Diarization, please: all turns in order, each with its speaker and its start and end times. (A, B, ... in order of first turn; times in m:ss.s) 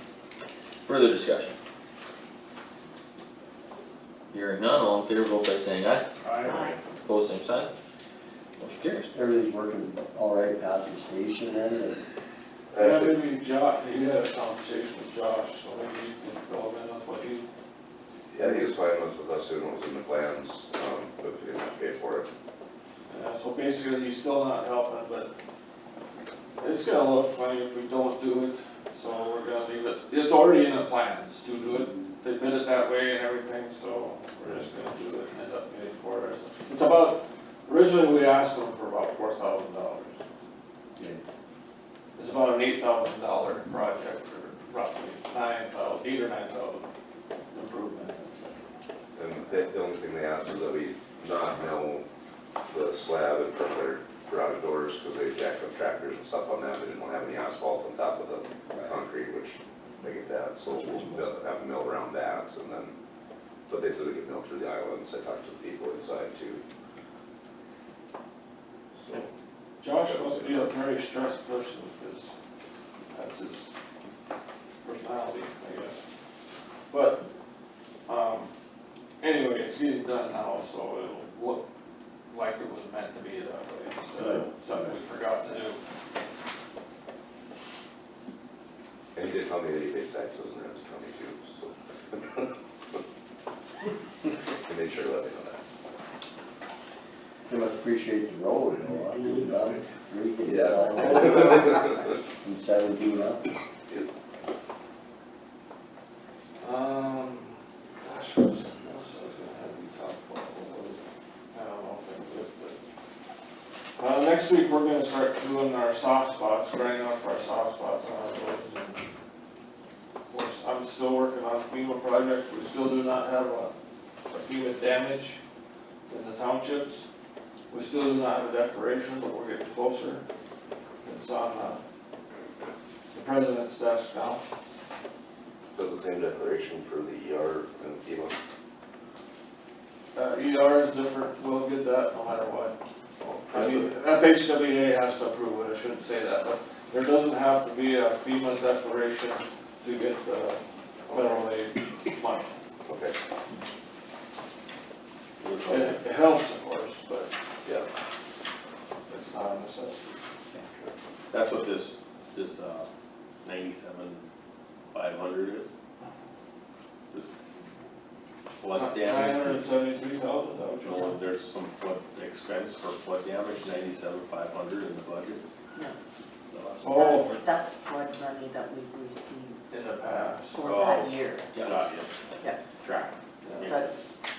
0:00.8-0:01.5 A
0:04.3-0:06.0 A
0:06.2-0:06.6 B
0:06.4-0:06.8 C
0:07.0-0:07.7 A
0:08.6-0:09.1 A
0:09.1-0:12.0 D
0:12.7-0:13.2 E
0:12.8-0:17.4 B
0:18.3-0:22.3 E
0:23.1-0:25.3 B
0:26.6-0:40.2 B
0:42.1-0:46.8 B
0:47.5-0:48.5 B
0:49.1-0:52.0 E
0:52.7-1:03.0 E
1:00.9-1:01.2 D
1:03.7-1:06.6 E
1:09.0-1:09.3 E
1:09.8-1:12.3 B
1:10.0-1:10.5 E
1:13.1-1:13.7 B
1:14.8-1:16.0 B
1:16.9-1:17.2 B
1:18.1-1:18.5 B
1:19.2-1:21.6 B
1:22.3-1:25.8 B
1:29.1-1:32.5 E
1:34.6-1:35.6 E
1:37.5-1:43.4 D
1:40.4-1:41.9 E
1:46.6-1:51.0 B
1:51.5-1:52.8 B
1:54.0-1:59.0 B
2:00.3-2:03.7 B
2:04.3-2:05.4 B
2:06.1-2:07.0 B
2:07.7-2:10.2 B
2:11.0-2:11.8 B
2:13.1-2:14.4 B
2:15.7-2:18.4 E
2:20.1-2:22.8 B
2:23.2-2:23.9 E
2:23.5-2:32.6 B
2:32.8-2:33.2 E
2:35.4-2:36.0 F
2:35.6-2:37.9 B
2:39.1-2:40.2 B
2:41.3-2:42.9 F
2:43.4-2:44.2 F
2:44.9-2:45.7 F
2:48.4-2:49.6 F
2:48.7-2:51.2 B
2:50.8-2:55.4 F
2:56.5-2:56.9 F
2:56.8-2:57.4 B
2:57.0-2:59.6 C
2:59.7-3:00.7 B
3:00.5-3:01.5 C
3:00.6-3:02.1 F
3:02.8-3:04.0 F
3:03.4-3:03.8 B
3:03.7-3:04.1 C